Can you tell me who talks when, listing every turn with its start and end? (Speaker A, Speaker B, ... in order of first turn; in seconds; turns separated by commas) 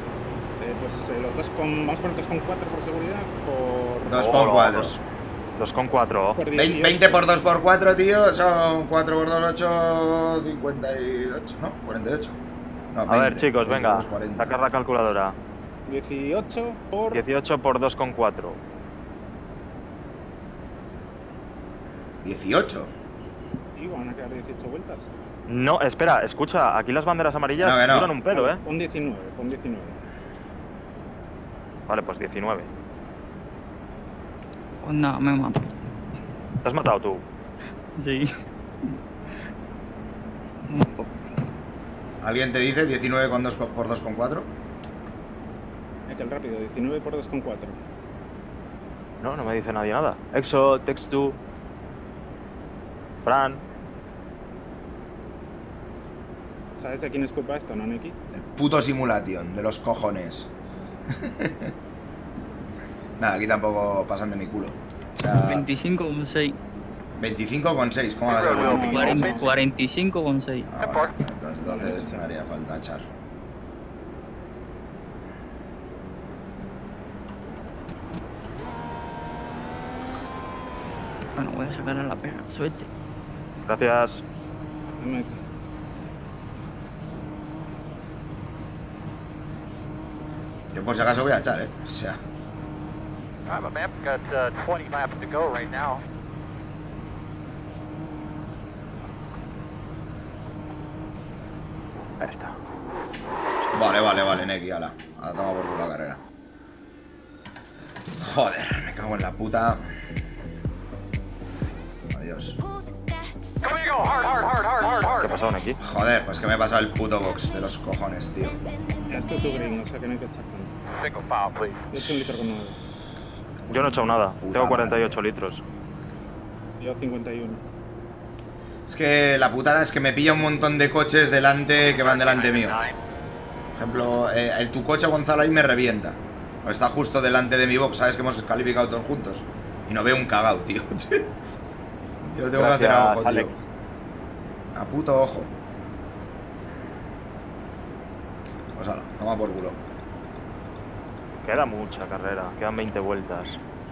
Speaker A: 0.6-4.5, Speaker B: 4.1-5.0, Speaker C: 4.1-5.0, Speaker C: 5.6-6.4, Speaker A: 6.4-7.3, Speaker B: 6.5-12.4, Speaker B: 12.9-14.6, Speaker C: 13.1-15.3, Speaker A: 15.9-17.2, Speaker C: 17.1-18.6, Speaker B: 22.2-22.9, Speaker A: 23.8-25.1, Speaker C: 25.5-28.6, Speaker B: 27.6-28.1, Speaker A: 28.3-30.0, Speaker C: 31.9-32.7, Speaker D: 34.8-35.7, Speaker C: 36.6-37.2, Speaker D: 38.0-38.3, Speaker D: 40.6-41.3, Speaker B: 42.2-44.5, Speaker A: 46.1-47.8, Speaker C: 49.2-51.4, Speaker C: 53.2-53.6, Speaker A: 56.8-58.2, Speaker B: 58.3-60.5, Speaker B: 61.1-61.7, Speaker B: 63.2-65.7, Speaker D: 65.3-66.6, Speaker B: 67.2-69.2, Speaker E: 68.3-69.6, Speaker A: 68.5-69.5, Speaker D: 68.6-70.7, Speaker B: 70.7-73.1, Speaker E: 70.8-71.1, Speaker A: 71.6-72.3, Speaker D: 81.3-82.9, Speaker C: 83.7-84.2, Speaker A: 85.0-85.3, Speaker B: 90.7-92.2, Speaker E: 93.5-96.0, Speaker C: 102.2-102.5, Speaker B: 103.7-106.2, Speaker B: 108.2-109.9, Speaker B: 112.1-112.6, Speaker E: 113.6-115.4, Speaker C: 115.2-115.8, Speaker B: 115.8-118.6, Speaker A: 119.1-120.7, Speaker E: 120.9-121.9, Speaker A: 121.9-122.8, Speaker C: 123.7-125.6, Speaker B: 124.4-125.2, Speaker A: 126.8-127.6, Speaker B: 128.9-132.8, Speaker E: 132.0-133.0, Speaker B: 133.8-141.3, Speaker B: 142.2-143.5, Speaker C: 142.5-143.6, Speaker B: 144.7-145.5, Speaker B: 148.7-149.8, Speaker C: 151.4-153.6